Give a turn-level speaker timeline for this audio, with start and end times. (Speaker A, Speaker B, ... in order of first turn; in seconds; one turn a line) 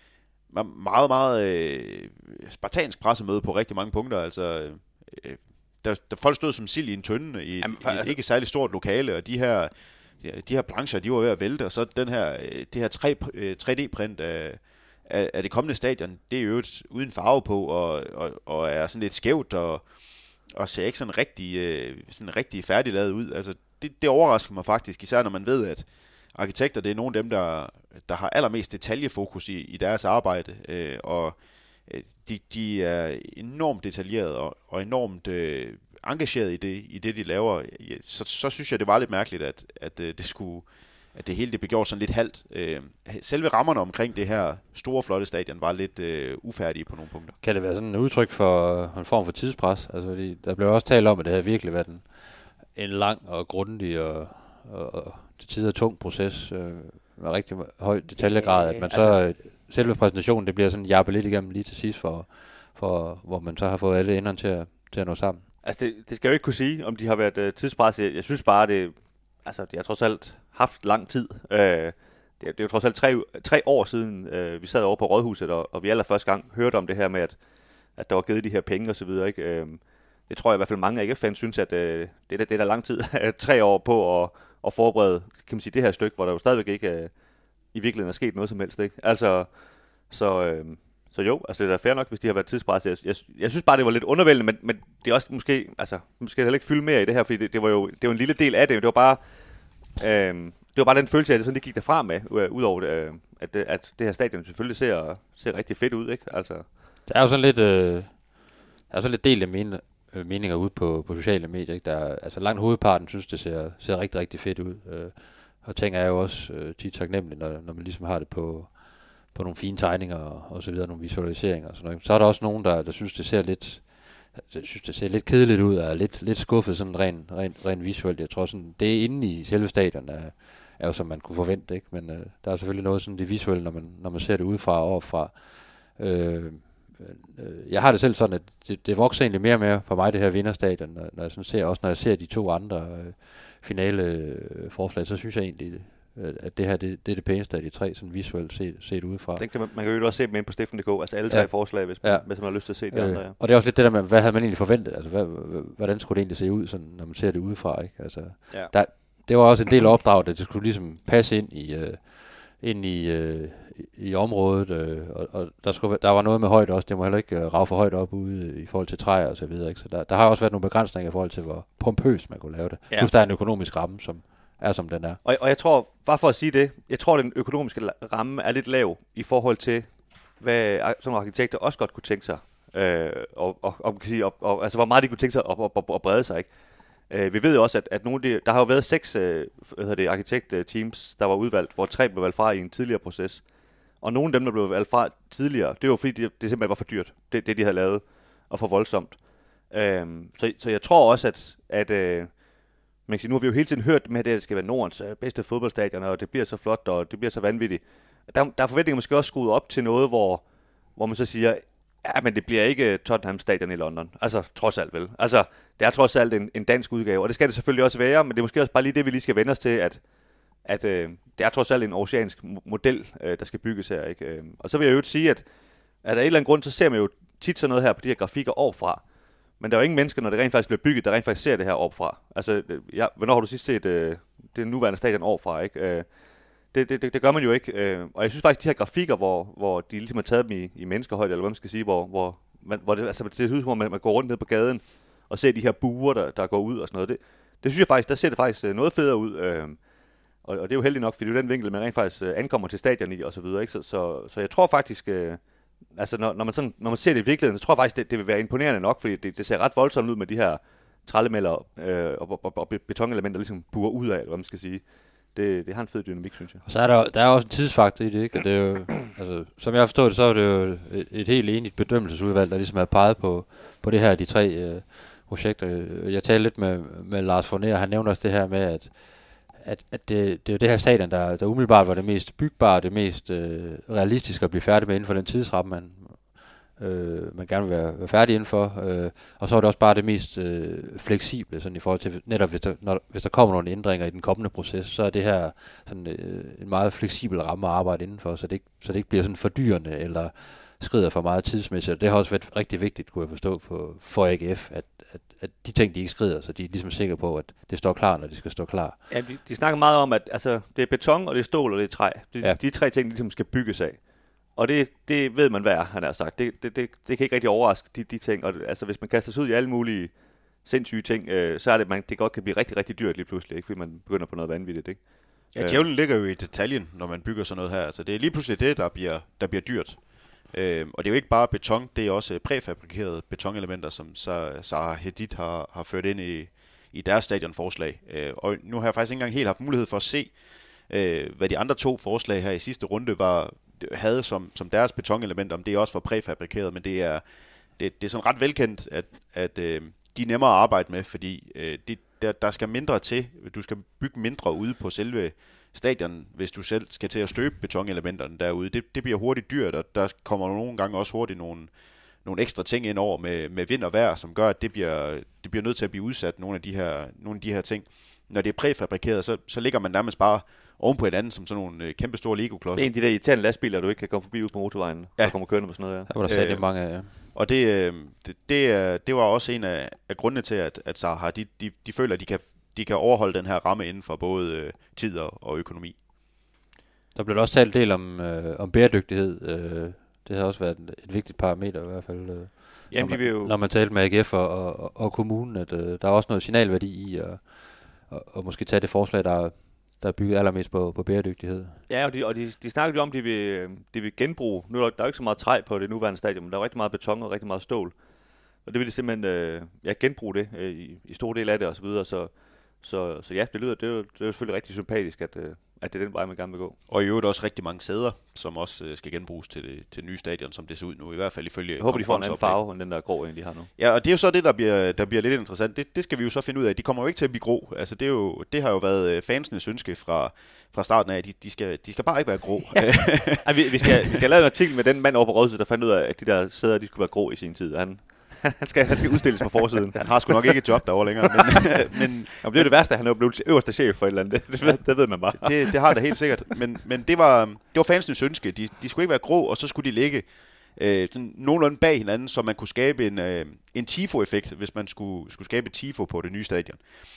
Speaker A: 0.5-47.4
Speaker B: 7.6-8.2
Speaker C: 47.4-65.5
Speaker B: 58.2-59.4
Speaker B: 65.6-87.1
Speaker B: 87.7-106.7
Speaker C: 107.1-149.5
Speaker B: 149.4-153.4
Speaker C: 151.3-175.2
Speaker B: 175.2-220.1
Speaker B: 220.6-225.5
Speaker B: 226.0-249.9
Speaker B: 250.4-266.6
Speaker C: 266.6-309.0
Speaker B: 309.1-325.9
Speaker A: 325.5-347.2
Speaker A: 347.8-361.7
Speaker A: 362.2-372.9
Speaker B: 372.8-376.1
Speaker A: 375.2-375.7
Speaker C: 376.1-377.2
Speaker A: 376.2-386.0
Speaker C: 387.1-401.8
Speaker B: 392.9-393.6
Speaker B: 401.9-408.0
Speaker B: 408.6-416.8
Speaker A: 416.9-422.6
Speaker B: 421.8-423.7
Speaker A: 423.8-434.2
Speaker B: 433.2-440.6
Speaker A: 439.9-442.7
Speaker B: 441.3-441.9
Speaker B: 442.4-446.2
Speaker A: 444.6-456.8